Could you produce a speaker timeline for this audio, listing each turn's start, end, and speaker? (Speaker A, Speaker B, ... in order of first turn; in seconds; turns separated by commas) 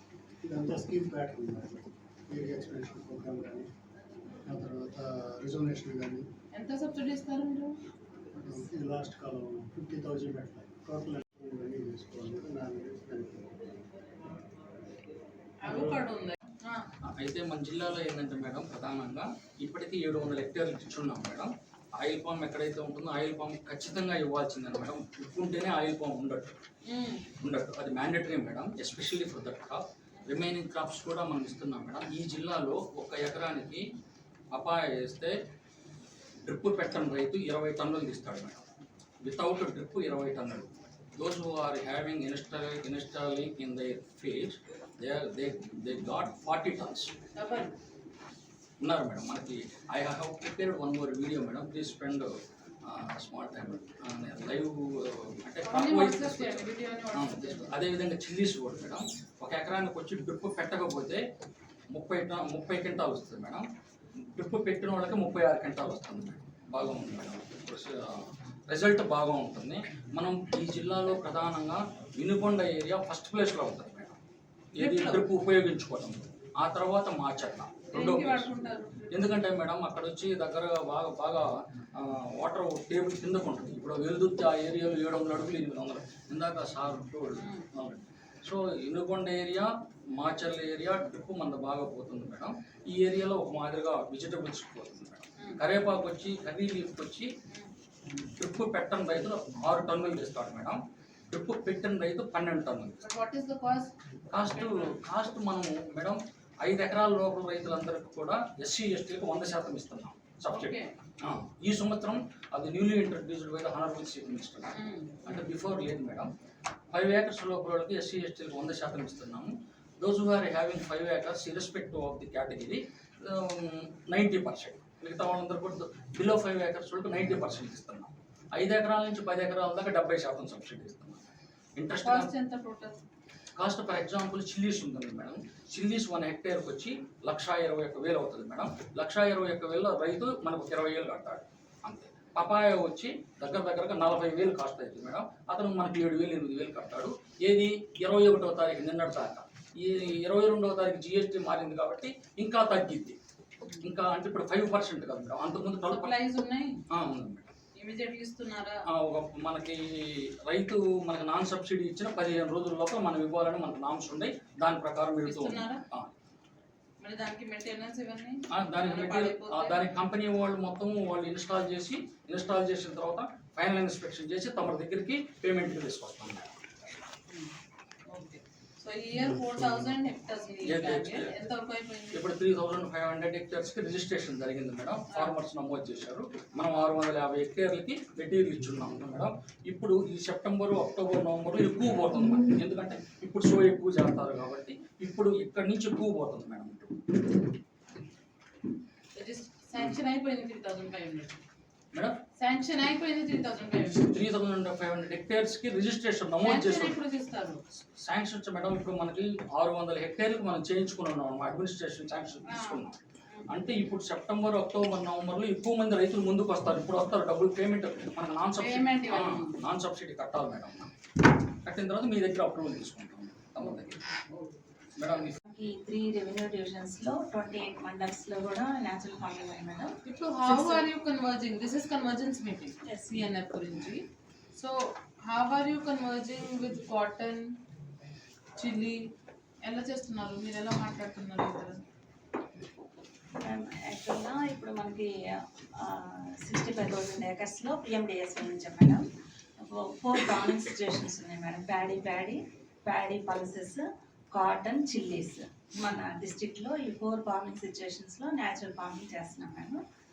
Speaker A: 0.4-3.7, Speaker A: 4.5-6.2, Speaker B: 6.5-7.7, Speaker A: 8.3-13.6, Speaker B: 15.6-16.9, Speaker A: 15.7-16.0, Speaker C: 17.2-26.5, Speaker B: 26.9-27.2, Speaker C: 27.4-33.8, Speaker C: 34.5-35.3, Speaker C: 36.4-38.6, Speaker C: 39.2-47.1, Speaker B: 47.4-47.7, Speaker C: 48.8-52.3, Speaker C: 52.8-61.2, Speaker B: 55.6-57.8, Speaker C: 61.9-63.6, Speaker C: 64.2-74.1, Speaker B: 74.7-75.2, Speaker C: 74.8-78.5, Speaker B: 77.9-79.4, Speaker C: 79.1-97.3, Speaker B: 87.4-87.7, Speaker C: 98.4-100.8, Speaker C: 101.3-103.0, Speaker B: 103.0-103.9, Speaker C: 104.3-114.7, Speaker B: 104.5-104.9, Speaker B: 110.5-110.9, Speaker B: 114.7-115.2, Speaker C: 115.2-116.3, Speaker C: 116.9-131.2, Speaker C: 131.8-132.3, Speaker B: 132.0-133.0, Speaker C: 133.6-153.2, Speaker C: 153.8-156.1, Speaker B: 155.9-156.8, Speaker C: 156.9-157.5, Speaker B: 157.8-158.8, Speaker C: 158.9-166.1, Speaker B: 165.2-165.8, Speaker B: 167.0-169.8, Speaker C: 168.5-176.6, Speaker B: 178.1-182.3, Speaker C: 180.6-181.3, Speaker C: 182.1-196.9, Speaker B: 199.1-201.4, Speaker B: 202.4-204.1, Speaker C: 204.0-207.0, Speaker B: 206.4-207.6, Speaker C: 207.8-213.0, Speaker B: 212.4-213.5, Speaker C: 213.5-220.9, Speaker B: 218.6-219.6, Speaker C: 221.6-224.0, Speaker C: 225.0-225.3, Speaker D: 225.5-230.8, Speaker B: 230.0-234.0, Speaker B: 235.3-237.6, Speaker B: 238.6-239.0, Speaker B: 239.7-241.8, Speaker D: 243.4-245.1, Speaker D: 245.8-249.0, Speaker D: 249.7-259.8